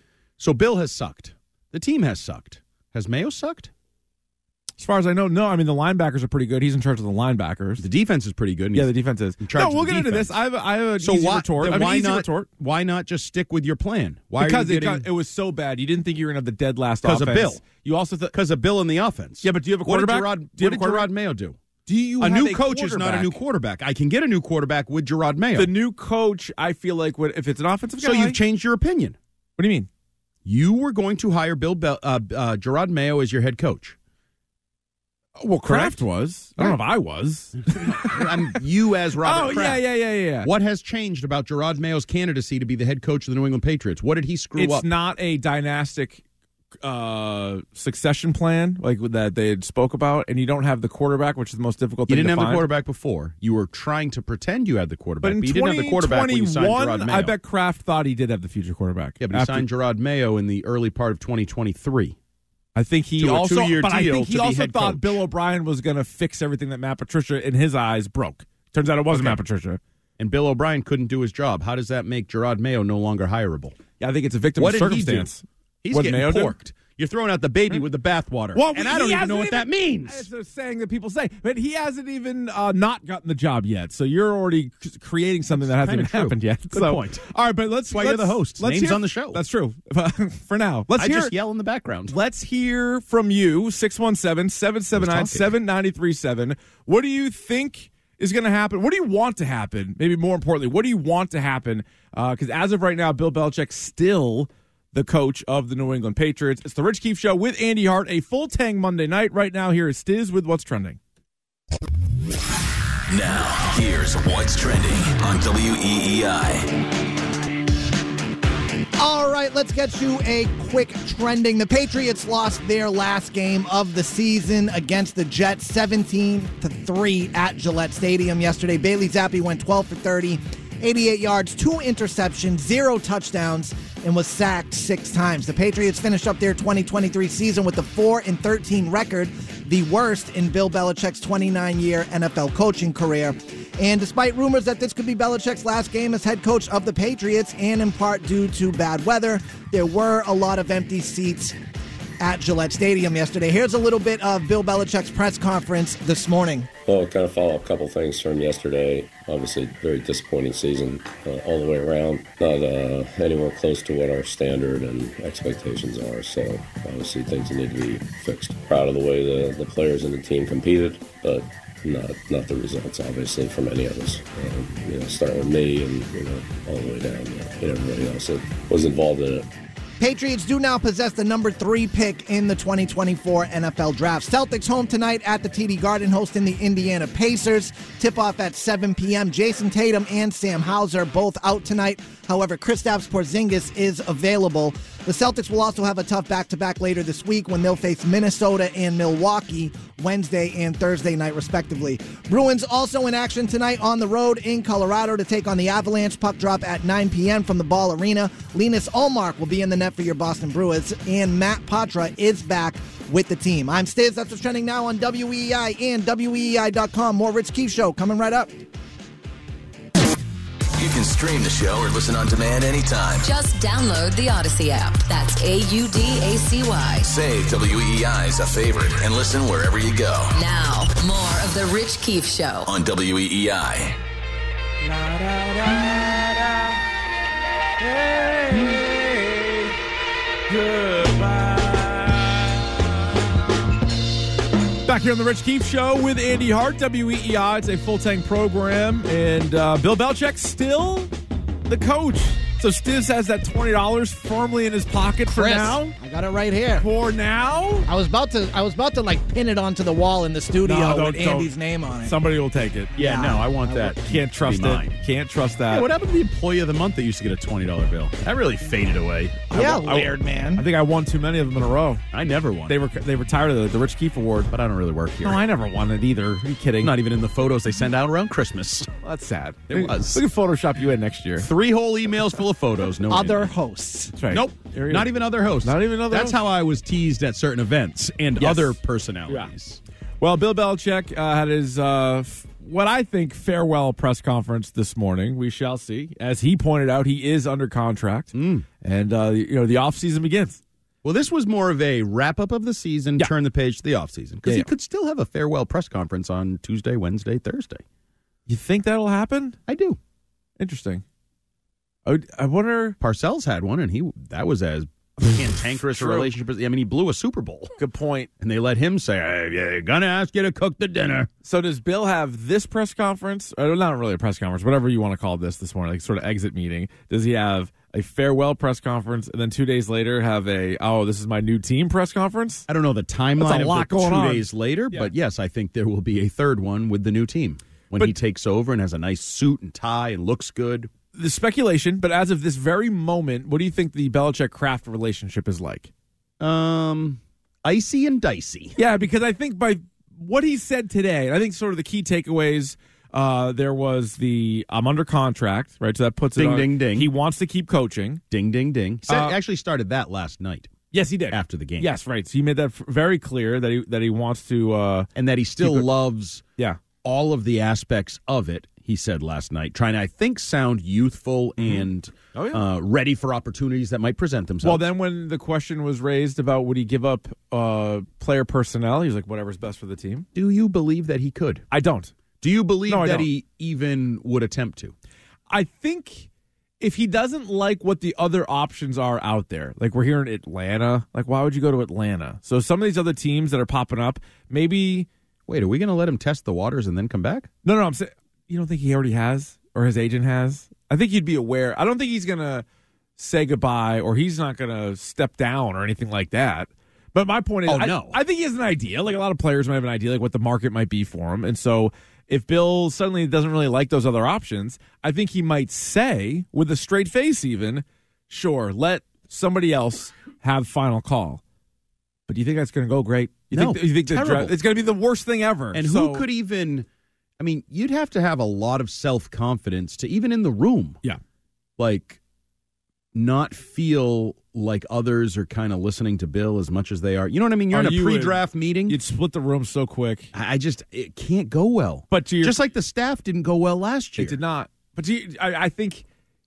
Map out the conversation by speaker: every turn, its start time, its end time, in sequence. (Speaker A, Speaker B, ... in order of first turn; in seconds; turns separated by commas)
Speaker A: 0.4-3.7, Speaker B: 4.8-7.9, Speaker A: 7.8-10.4, Speaker B: 8.7-12.5, Speaker A: 11.0-15.1, Speaker B: 14.4-18.3, Speaker A: 17.0-17.6, Speaker A: 18.3-21.6, Speaker B: 19.4-21.1, Speaker B: 21.9-23.4, Speaker A: 22.2-25.7, Speaker B: 25.6-28.4, Speaker A: 28.0-29.2, Speaker B: 29.6-29.9, Speaker A: 30.4-34.0, Speaker B: 35.4-38.4, Speaker A: 35.6-36.0, Speaker A: 37.7-39.9, Speaker B: 39.2-40.5, Speaker A: 40.4-44.9, Speaker B: 44.6-46.2, Speaker B: 46.8-52.7, Speaker A: 52.1-57.4, Speaker B: 55.2-59.6, Speaker A: 59.2-62.2, Speaker B: 62.8-69.8, Speaker A: 63.2-65.2, Speaker A: 69.1-69.4, Speaker A: 70.2-73.8, Speaker B: 74.0-76.5, Speaker A: 74.6-75.3, Speaker A: 75.8-80.3, Speaker B: 78.5-91.3, Speaker A: 85.6-87.3, Speaker A: 87.9-89.4, Speaker A: 90.9-92.2, Speaker B: 92.1-111.0, Speaker A: 95.0-95.5, Speaker C: 113.1-116.7, Speaker D: 119.0-151.6, Speaker D: 152.2-156.7, Speaker E: 156.9-179.5, Speaker D: 180.0-218.5, Speaker C: 220.8-223.3, Speaker F: 223.2-227.1, Speaker C: 227.0-230.4, Speaker F: 230.3-232.7, Speaker C: 232.7-234.0, Speaker B: 235.0-236.4, Speaker B: 237.8-239.7, Speaker B: 240.5-242.4, Speaker B: 244.8-251.1, Speaker B: 251.7-256.0, Speaker D: 255.3-256.9, Speaker B: 256.8-257.9, Speaker D: 257.9-262.1, Speaker B: 260.7-262.9, Speaker A: 263.0-264.9, Speaker D: 263.0-263.9, Speaker B: 264.0-265.9, Speaker A: 265.7-270.0, Speaker D: 269.5-270.6, Speaker B: 269.6-272.0, Speaker A: 272.1-272.8, Speaker B: 272.7-274.5, Speaker A: 274.5-275.4, Speaker B: 275.2-277.0, Speaker A: 276.8-278.9, Speaker B: 279.0-281.5, Speaker A: 279.7-280.2, Speaker A: 281.4-283.5, Speaker D: 283.1-284.1, Speaker B: 284.2-285.1, Speaker A: 284.3-289.8, Speaker B: 285.6-286.4, Speaker B: 288.4-289.5, Speaker B: 290.2-300.6, Speaker A: 298.3-298.7, Speaker A: 301.0-307.8, Speaker B: 308.5-309.6, Speaker A: 309.7-310.0, Speaker B: 310.6-311.0, Speaker B: 312.1-313.0, Speaker A: 313.0-317.7, Speaker B: 315.8-316.3, Speaker B: 317.8-318.3, Speaker A: 318.4-321.3, Speaker B: 321.4-332.7, Speaker A: 332.7-340.9, Speaker B: 333.4-335.1, Speaker B: 341.2-345.9, Speaker A: 346.4-348.8, Speaker B: 348.8-358.2, Speaker A: 356.4-357.1, Speaker A: 358.3-360.8, Speaker B: 359.1-359.4, Speaker B: 360.9-365.1, Speaker A: 361.3-361.9, Speaker A: 365.1-366.4, Speaker B: 365.6-365.9, Speaker A: 367.0-374.9, Speaker B: 372.4-372.6, Speaker B: 374.6-380.3, Speaker A: 380.4-381.7, Speaker B: 381.7-382.1, Speaker A: 382.4-384.9, Speaker B: 382.9-383.3, Speaker B: 385.5-386.3, Speaker B: 386.8-395.1, Speaker A: 395.5-397.5, Speaker B: 397.6-402.6, Speaker B: 403.2-421.4, Speaker A: 407.7-408.2, Speaker B: 422.3-426.3, Speaker A: 423.5-424.6, Speaker A: 425.7-426.9, Speaker A: 427.4-431.0, Speaker A: 431.8-432.2, Speaker A: 433.1-439.0, Speaker B: 437.7-440.3, Speaker A: 440.3-444.4, Speaker B: 442.1-442.6, Speaker B: 444.2-446.0